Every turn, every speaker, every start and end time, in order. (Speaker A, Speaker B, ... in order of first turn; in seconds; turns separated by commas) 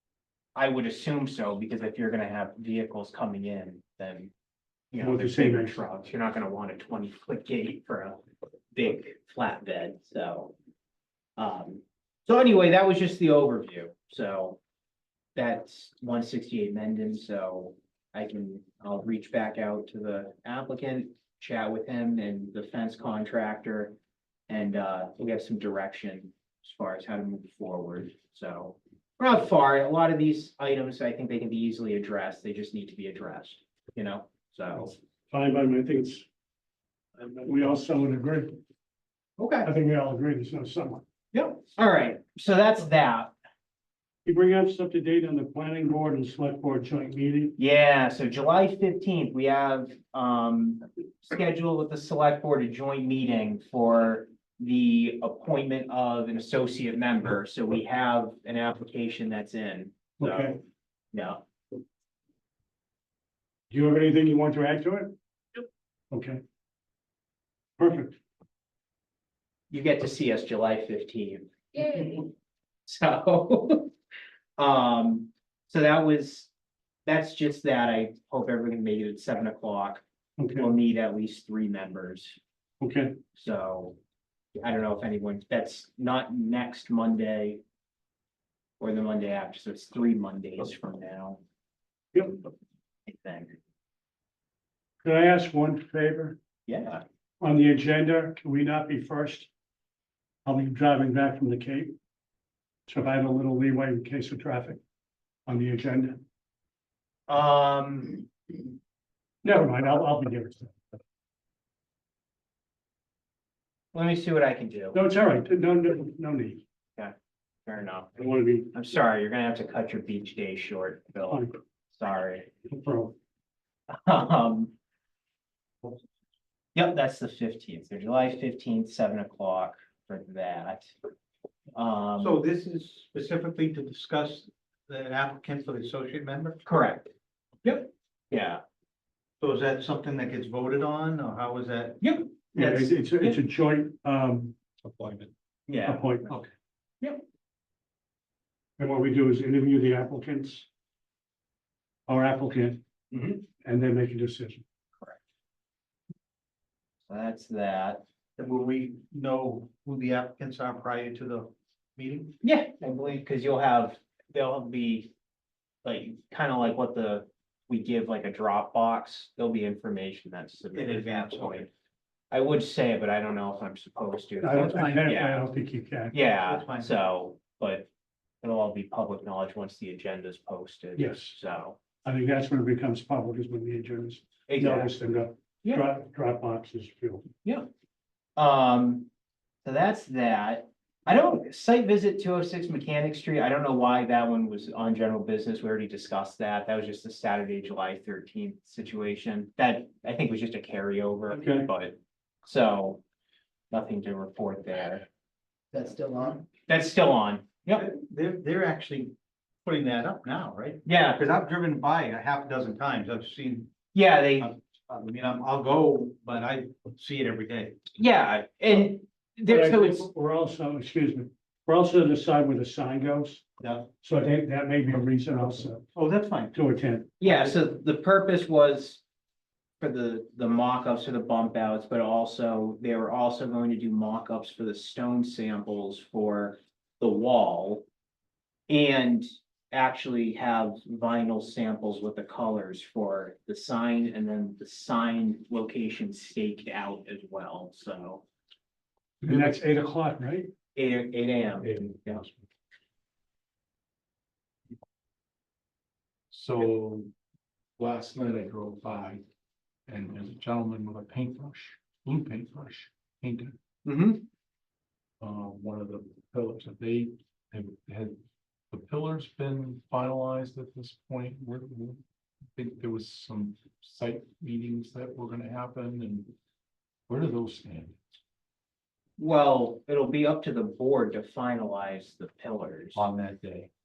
Speaker A: 0.6-4.3, Speaker A: 4.9-8.2, Speaker B: 5.0-5.8, Speaker A: 8.7-10.5, Speaker A: 11.4-14.6, Speaker A: 15.3-24.0, Speaker A: 24.5-35.0, Speaker B: 35.3-36.3, Speaker B: 37.2-38.6, Speaker A: 39.4-39.7, Speaker B: 39.6-41.0, Speaker A: 41.3-43.3, Speaker B: 44.2-47.6, Speaker A: 47.6-60.6, Speaker B: 60.2-60.6, Speaker A: 61.1-61.4, Speaker B: 63.7-65.2, Speaker B: 66.1-66.4, Speaker B: 67.8-68.2, Speaker A: 69.7-72.3, Speaker A: 72.9-73.9, Speaker A: 74.6-76.5, Speaker A: 77.1-80.0, Speaker B: 80.4-80.7, Speaker A: 80.6-82.4, Speaker B: 82.8-83.2, Speaker A: 83.3-84.0, Speaker A: 84.5-87.6, Speaker A: 88.8-91.4, Speaker B: 92.1-92.4, Speaker A: 93.1-93.6, Speaker B: 95.0-96.4, Speaker A: 96.7-97.0, Speaker B: 97.4-99.5, Speaker B: 100.5-102.0, Speaker B: 102.9-104.8, Speaker B: 105.5-106.2, Speaker A: 107.3-108.3, Speaker B: 109.4-110.7, Speaker A: 113.9-115.0, Speaker B: 114.9-116.6, Speaker A: 117.7-122.5, Speaker B: 118.2-118.7, Speaker B: 121.3-121.5, Speaker B: 122.7-123.2, Speaker A: 123.9-124.7, Speaker A: 126.8-130.9, Speaker A: 131.7-132.4, Speaker C: 132.2-136.6, Speaker A: 136.7-137.1, Speaker A: 137.6-138.6, Speaker C: 139.4-142.0, Speaker A: 142.0-143.4, Speaker B: 142.5-144.6, Speaker C: 144.8-145.3, Speaker A: 145.7-146.3, Speaker B: 145.9-146.3, Speaker B: 148.8-150.7, Speaker B: 152.1-152.8, Speaker A: 153.1-153.4, Speaker B: 153.6-154.6, Speaker A: 157.1-158.0, Speaker C: 158.4-162.4, Speaker A: 162.4-165.1, Speaker A: 165.8-171.7, Speaker C: 170.8-171.7, Speaker A: 172.3-175.4, Speaker B: 174.4-176.2, Speaker A: 176.1-177.9, Speaker C: 176.4-177.0, Speaker A: 178.4-181.8, Speaker B: 181.0-181.4, Speaker B: 182.1-187.3, Speaker A: 184.5-184.9, Speaker A: 188.4-189.1, Speaker A: 189.7-203.0, Speaker B: 201.3-201.7, Speaker A: 203.7-205.1, Speaker A: 205.7-207.9, Speaker C: 207.7-209.1, Speaker C: 209.7-213.7, Speaker A: 210.8-211.2, Speaker A: 213.9-214.5, Speaker C: 214.4-217.8, Speaker A: 218.0-220.1, Speaker B: 219.5-223.4, Speaker C: 223.6-223.9, Speaker B: 224.0-225.8, Speaker C: 225.9-226.6, Speaker B: 226.5-227.1, Speaker A: 227.2-229.0, Speaker A: 229.8-237.9, Speaker A: 238.7-248.2, Speaker B: 249.2-250.5, Speaker A: 250.8-252.2, Speaker D: 251.6-252.4, Speaker D: 256.3-257.1, Speaker D: 257.8-259.2, Speaker D: 259.9-263.6, Speaker A: 263.9-264.2, Speaker D: 265.2-268.2, Speaker D: 268.7-272.0, Speaker D: 272.5-276.3, Speaker D: 277.1-278.0, Speaker A: 279.2-283.1, Speaker D: 282.9-283.7